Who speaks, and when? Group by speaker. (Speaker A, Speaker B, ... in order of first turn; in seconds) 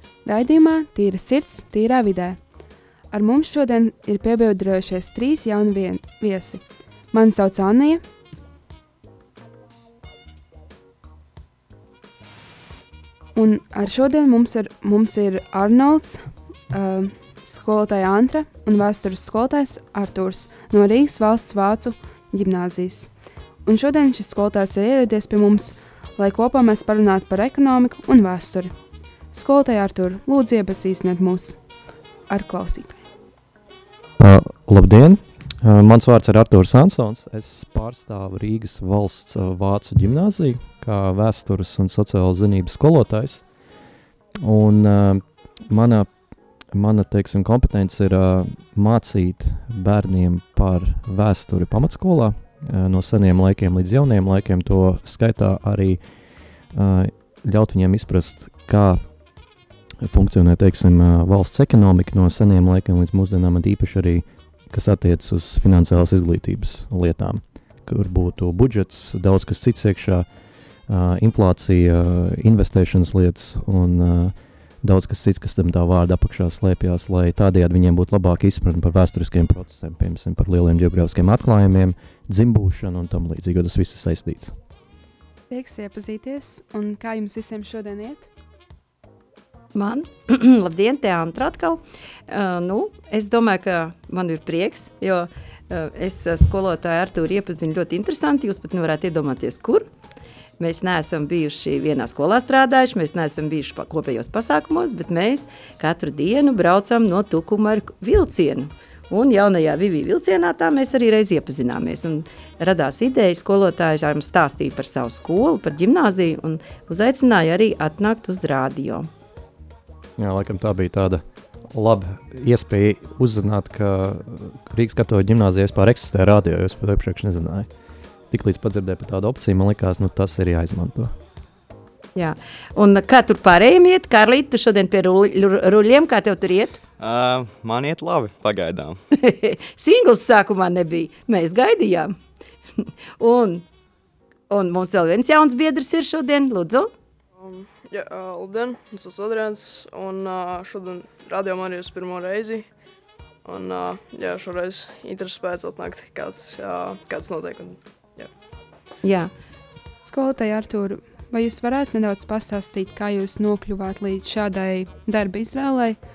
Speaker A: 0.2-2.4, 3.1-8.0, 13.3-23.1, 23.6-28.7, 29.3-31.6, 32.3-33.0, 85.5-88.3, 160.0-166.0
Speaker B: 34.2-43.4, 44.4-46.1, 46.7-56.0, 56.7-59.0, 60.0-70.3, 70.9-84.5, 120.2-127.7, 128.3-131.1
Speaker C: 89.7-99.9, 100.6-119.1, 132.1-136.8, 139.1-142.1, 142.8-143.6, 144.5-146.9, 159.0-159.3
Speaker D: 137.0-139.0
Speaker E: 147.3-152.7, 153.4-158.3